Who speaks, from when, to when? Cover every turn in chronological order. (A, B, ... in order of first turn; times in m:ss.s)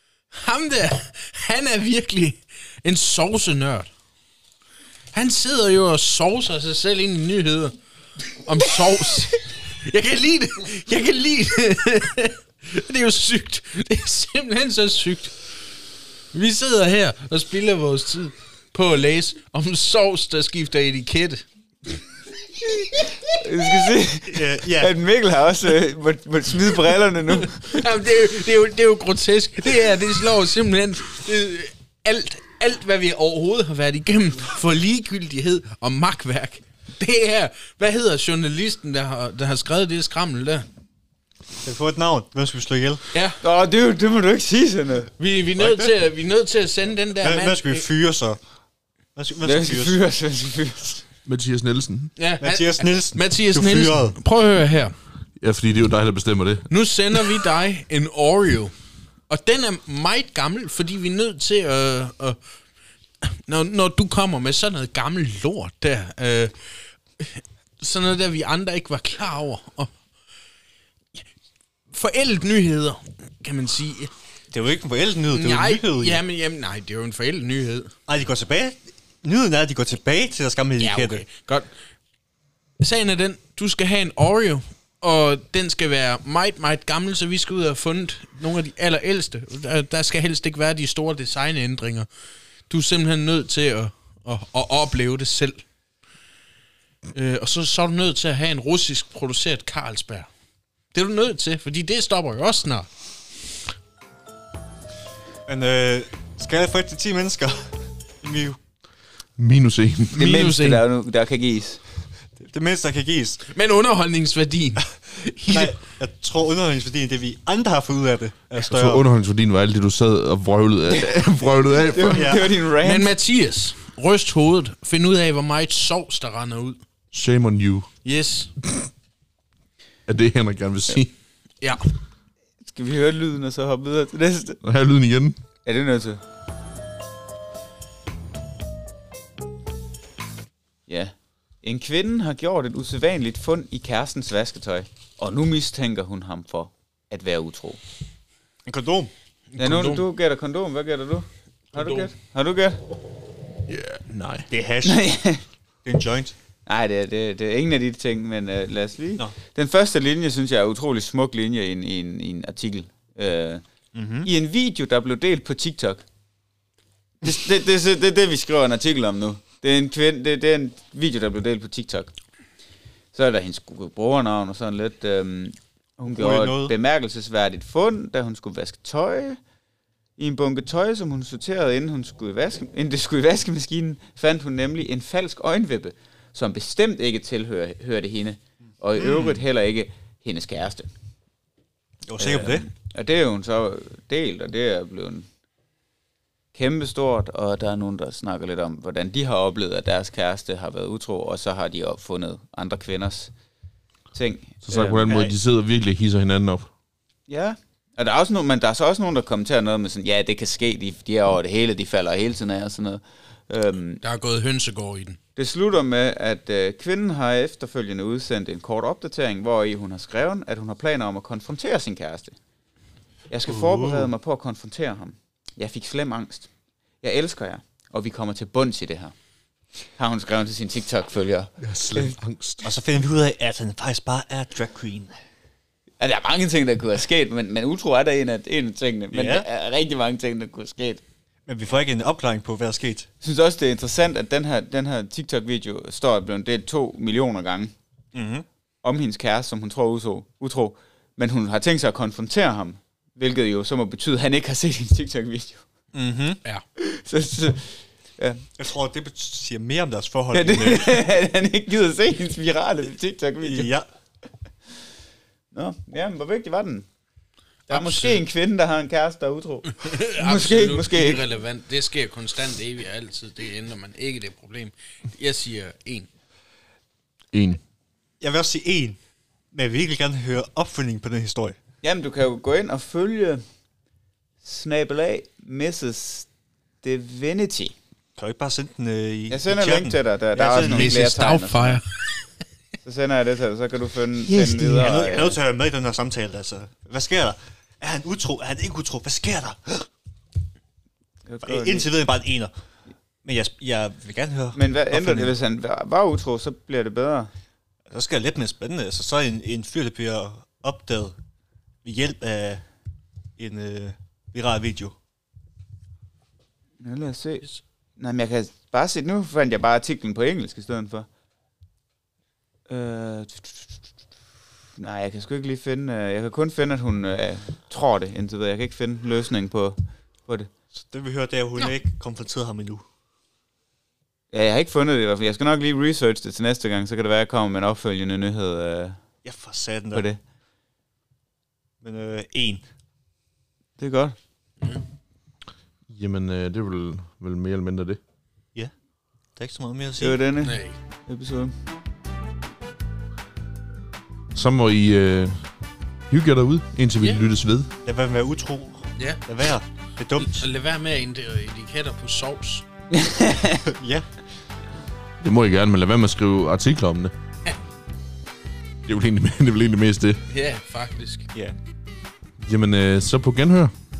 0:00.3-0:03.9 A
0:05.1-0:07.8 A
0:08.4-0:15.4 A
0:16.3-0:21.4 A
0:23.4-0:27.7 B
0:24.3-0:24.9 C
0:27.4-0:40.7 A
0:41.6-0:43.0 C
0:43.1-0:43.4 A
0:43.4-0:45.1 B
0:45.2-0:47.9 A
0:45.6-0:45.9 C
0:47.2-0:48.4 C
0:49.2-0:50.0 C
0:49.4-0:51.0 B
0:51.2-0:52.1 D
0:52.2-0:54.9 A
0:52.4-0:54.2 C
0:55.4-0:56.7 D
0:56.7-0:58.7 A
0:59.3-1:02.4 A
1:03.2-1:06.5 A
1:07.2-1:09.9 A
1:11.9-1:14.1 A
1:14.5-1:16.2 C
1:15.3-1:17.9 A
1:18.1-1:21.2 C
1:20.8-1:21.7 A
1:22.8-1:32.1 A
1:32.7-1:35.6 A
1:37.1-1:40.3 A
1:40.9-1:42.9 A
1:45.5-1:48.6 C
1:49.4-1:50.4 D
1:50.1-1:51.8 B
1:50.1-1:50.8 A
1:52.4-1:53.4 C
1:53.5-1:55.8 A
1:55.5-1:59.0 C
1:58.6-2:02.3 D
2:00.9-2:03.1 B
2:02.2-2:02.4 C
2:02.8-2:06.8 A
2:07.1-2:07.9 D
2:08.0-2:08.5 A
2:10.1-2:11.1 D
2:12.6-2:14.6 B
2:14.6-2:15.4 D
2:15.6-2:16.2 B
2:20.9-2:27.8 B
2:28.6-2:29.1 C
2:29.5-2:30.0 A
2:29.6-2:32.8 B
2:31.7-2:32.1 A
2:33.7-2:34.5 D
2:34.5-2:35.1 C
2:34.8-2:35.4 B
2:35.8-2:36.3 C
2:36.6-2:43.6 B
2:43.9-2:44.3 C
2:44.2-2:46.0 B
2:47.2-2:52.1 B
2:53.1-2:59.4 B
2:56.1-2:56.7 C
3:00.2-3:10.9 B
3:09.0-3:09.4 C
3:12.0-3:12.6 C
3:12.2-3:15.3 B
3:16.5-3:23.3 B
3:24.1-3:25.0 B
3:24.6-3:26.7 D
3:25.1-3:25.3 C
3:27.3-3:34.0 B
3:34.0-3:35.2 A
3:35.4-3:42.4 B
3:43.3-3:46.5 B
3:43.5-3:44.1 C
3:47.0-3:49.1 B
3:49.9-3:52.2 B
3:51.6-3:52.6 D
3:52.6-3:55.1 C
3:56.0-4:01.0 B
3:59.1-3:59.4 C
4:01.5-4:03.1 C
4:03.2-4:07.7 B
4:08.1-4:08.4 C
4:08.8-4:15.6 B
4:15.9-4:16.4 C
4:16.8-4:18.4 B
4:18.6-4:21.0 C
4:20.3-4:23.7 B
4:23.4-4:23.9 C
4:25.5-4:26.9 B
4:27.7-4:28.2 A
4:27.7-4:31.2 B
4:29.8-4:36.1 A
4:37.3-4:37.6 D
4:38.2-4:39.0 C
4:39.5-4:41.6 C
4:41.8-4:43.4 B
4:44.4-4:46.3 B
4:46.8-4:47.7 B
4:48.2-4:51.0 C
4:49.3-4:51.8 B
4:50.5-4:52.2 A
4:52.8-4:55.4 B
4:54.3-4:59.9 C
5:01.2-5:01.9 B
5:01.4-5:02.5 C
5:03.2-5:05.3 C
5:04.5-5:07.3 B
5:07.9-5:11.2 C
5:11.8-5:12.6 C
5:13.4-5:14.9 C
5:16.8-5:17.4 B
5:18.0-5:21.1 B
5:22.7-5:23.8 B
5:24.8-5:30.5 B
5:30.7-5:32.8 C
5:34.3-5:39.0 B
5:39.2-5:40.0 C
5:39.9-5:40.2 B
5:41.8-5:42.6 C
5:43.8-5:44.2 B
5:45.9-5:48.0 D
5:49.4-5:50.2 C
5:50.0-5:51.5 B
5:50.4-5:50.8 A
5:54.3-5:55.4 D
5:56.1-5:57.7 D
5:57.8-6:00.5 C
5:59.0-5:59.2 A
6:00.1-6:02.6 A
6:02.9-6:03.6 B
6:03.6-6:04.0 C
6:05.2-6:07.1 D
6:08.8-6:10.2 D
6:10.3-6:11.3 A
6:12.4-6:13.7 D